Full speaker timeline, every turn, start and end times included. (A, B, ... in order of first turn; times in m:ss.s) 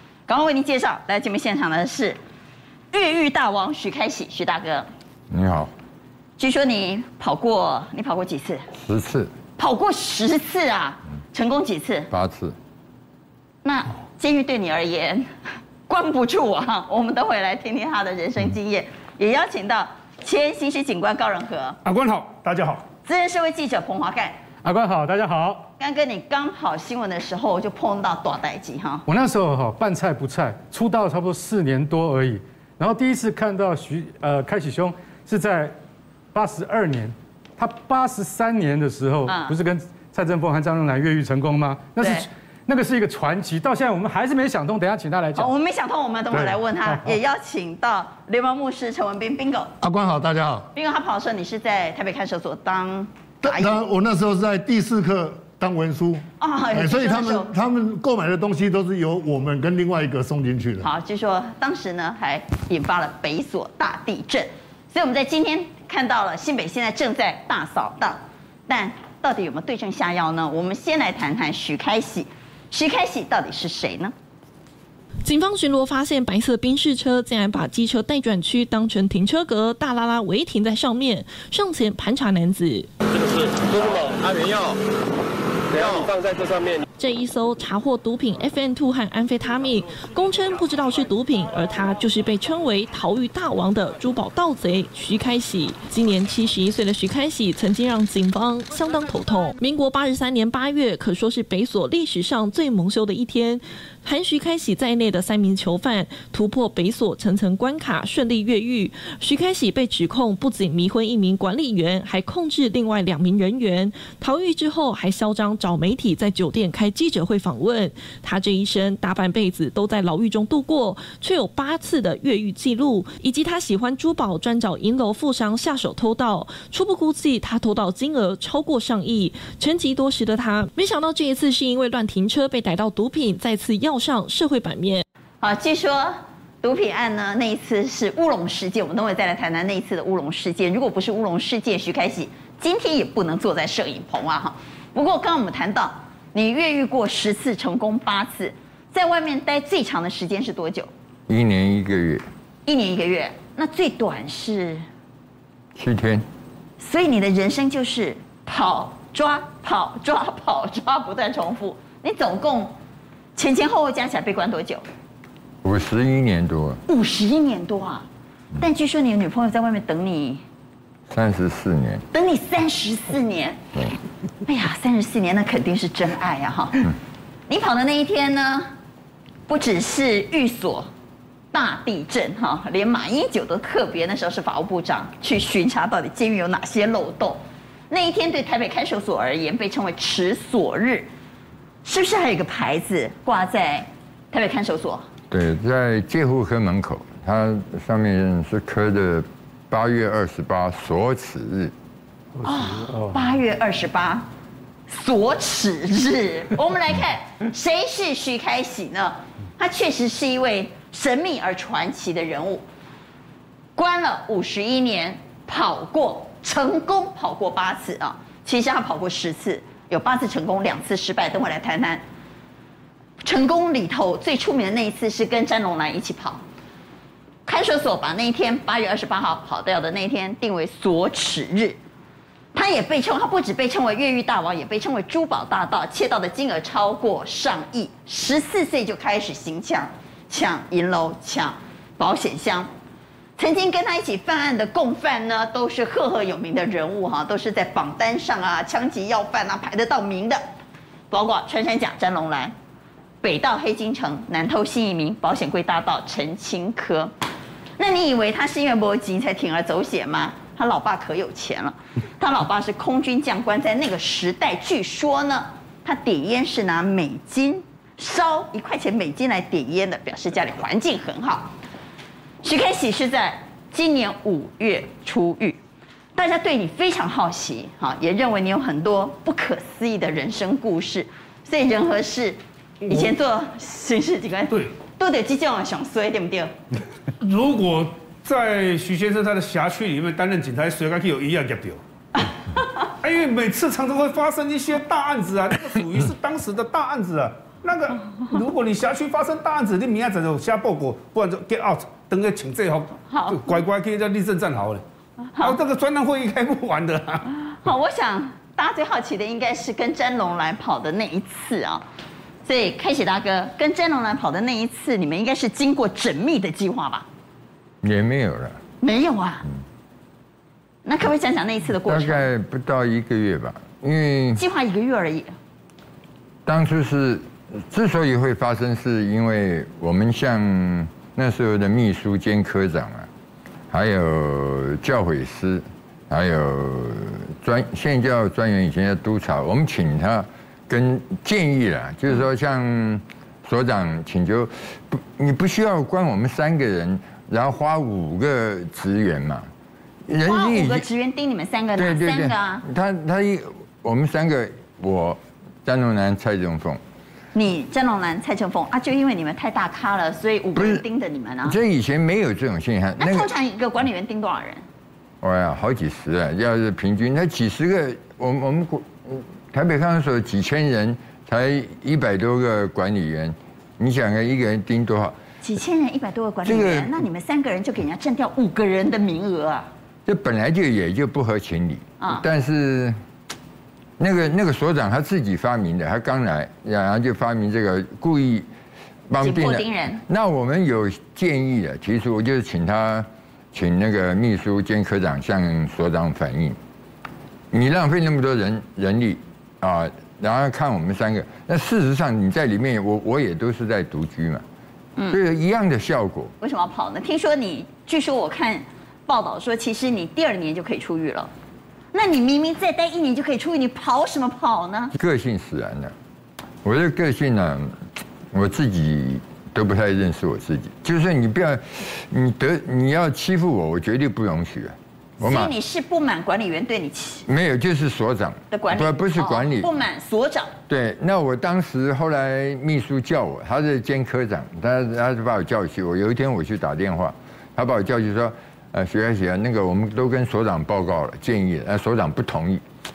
0:00.3-0:02.2 A
0:02.9-0:04.9 A
0:05.3-0:05.7 B
0:06.4-0:08.7 A
0:08.8-0:09.3 B
0:09.6-0:12.1 A
0:12.1-0:12.6 B
0:13.6-0:15.3 A
0:15.9-0:21.8 A
0:21.8-0:22.8 C
0:23.0-0:24.4 A
0:24.6-0:25.7 D
0:25.8-0:29.0 A
0:29.1-0:35.8 D
0:36.3-0:45.5 D
0:39.2-0:39.6 A
0:42.0-0:42.3 A
0:45.3-0:49.7 A
0:46.3-0:47.2 D
0:49.8-0:50.7 E
0:50.8-0:53.8 A
0:53.4-1:00.9 E
0:56.4-0:57.5 A
1:00.8-1:14.1 A
1:15.2-1:22.9 F
1:23.1-1:24.8 G
1:25.7-1:26.8 G
1:27.0-2:15.0 F
2:15.4-2:30.9 A
2:31.3-2:32.2 B
2:32.7-2:34.8 A
2:35.8-2:36.2 B
2:36.8-2:42.8 A
2:43.4-2:44.8 A
2:45.6-2:46.8 B
2:46.9-2:48.1 A
2:48.6-2:50.4 A
2:51.1-2:52.0 B
2:52.1-2:53.6 A
2:54.4-2:56.9 A
2:57.5-2:58.7 A
2:59.5-3:00.9 A
3:01.5-3:11.1 A
3:11.8-3:15.1 A
3:15.3-3:21.7 B
3:22.4-3:24.3 A
3:24.9-3:32.6 A
3:33.8-3:42.0 A
3:43.2-3:46.4 A
3:47.4-3:51.8 A
3:52.5-4:02.7 A
4:03.4-4:10.4 A
4:11.1-4:12.5 A
4:13.2-4:17.1 A
4:17.8-4:31.5 A
4:32.4-4:35.6 A
4:36.1-4:42.4 A
4:42.8-4:43.1 C
4:42.9-4:46.5 A
4:47.2-4:51.8 C
4:53.0-5:04.8 C
5:03.1-5:03.5 A
5:05.4-5:07.2 C
5:07.3-5:11.8 A
5:12.4-5:17.1 A
5:17.8-5:18.6 B
5:18.8-5:19.5 A
5:20.8-5:22.3 A
5:21.9-5:24.4 B
5:24.4-5:25.3 A
5:26.4-5:33.1 B
5:33.7-5:49.5 B
5:50.1-5:50.9 B
5:50.2-5:52.6 A
5:51.8-5:56.8 B
5:57.3-6:01.6 A
6:00.6-6:00.8 B
6:01.4-6:03.3 B
6:03.0-6:04.6 A
6:05.2-6:15.2 B
6:15.4-6:19.7 A
6:16.4-6:16.9 B
6:20.1-6:23.0 B
6:22.0-6:22.2 A
6:24.0-6:28.5 B
6:29.1-6:36.6 B
6:29.2-6:30.0 A
6:37.5-6:44.4 B
6:45.1-6:46.3 B
6:46.4-6:51.3 A
6:51.9-6:54.9 A
6:54.9-6:55.9 B
6:56.6-6:57.8 B
6:58.3-7:05.5 B
7:05.2-7:07.2 A
7:07.2-7:09.7 B
7:08.5-7:10.5 A
7:10.7-7:22.6 B